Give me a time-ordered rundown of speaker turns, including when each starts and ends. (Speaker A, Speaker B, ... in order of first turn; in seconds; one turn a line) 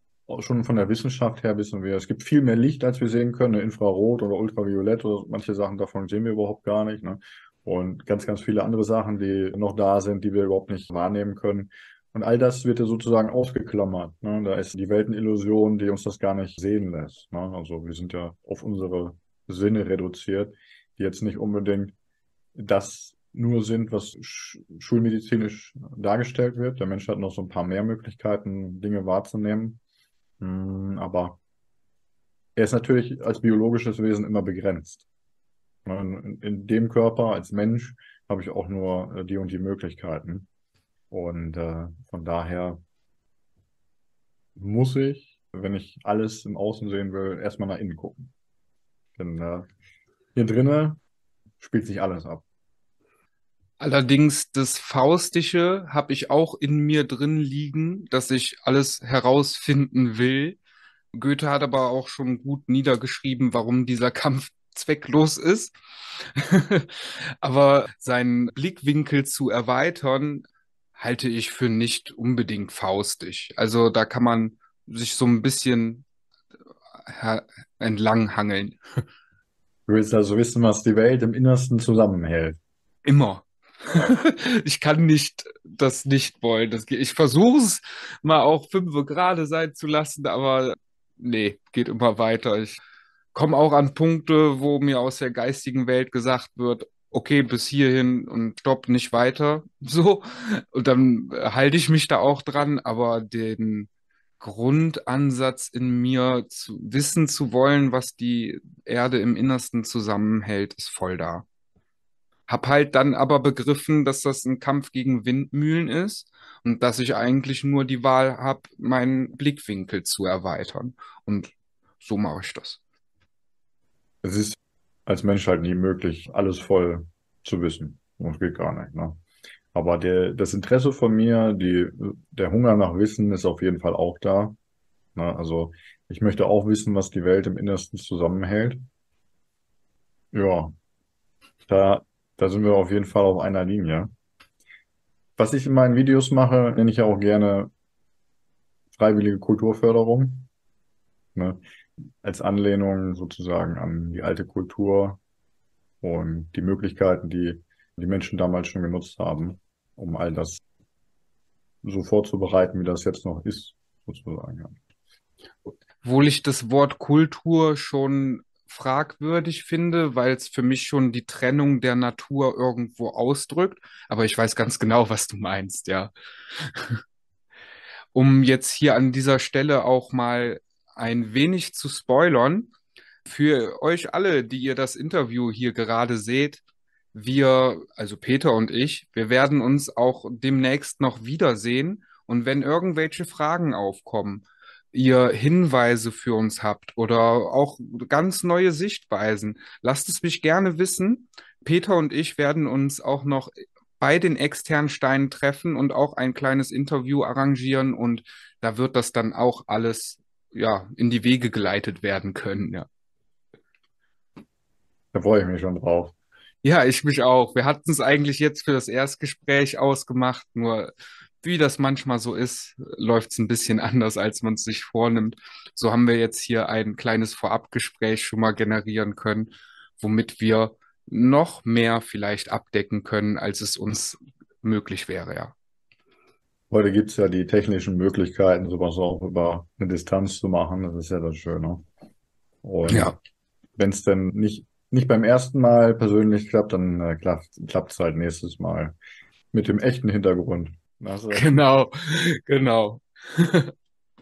Speaker A: 0.3-21.9
Speaker A: 22.5-29.8
Speaker A: 30.4-31.4
Speaker A: 32.5-35.1
Speaker A: 35.8-40.5
Speaker A: 41.1-42.8
Speaker A: 44.5-48.3
Speaker A: 49.2-49.7
Speaker A: 50.3-51.0
Speaker A: 51.6-52.5
Speaker B: 53.8-60.6
Speaker B: 61.1-76.0
Speaker B: 77.0-78.8
Speaker A: 79.9-82.6
Speaker B: 83.0-92.8
Speaker B: 93.3-103.9
Speaker B: 104.4-111.5
Speaker B: 112.5-122.8
Speaker A: 124.2-129.2
Speaker A: 129.7-134.6
Speaker A: 135.2-138.8
Speaker A: 140.3-140.7
Speaker A: 141.7-144.1
Speaker A: 145.4-147.7
Speaker A: 148.9-150.5
Speaker A: 151.3-151.6
Speaker A: 152.2-155.2
Speaker A: 156.0-160.6
Speaker A: 161.8-164.8
Speaker B: 166.0-177.0
Speaker B: 178.1-182.7
Speaker B: 183.2-186.6
Speaker B: 187.1-212.8
Speaker A: 215.1-216.1
Speaker B: 216.6-235.5
Speaker A: 236.7-241.8
Speaker A: 242.6-243.2
Speaker B: 242.9-243.1
Speaker A: 243.8-248.9
Speaker A: 249.5-251.6
Speaker B: 251.3-253.7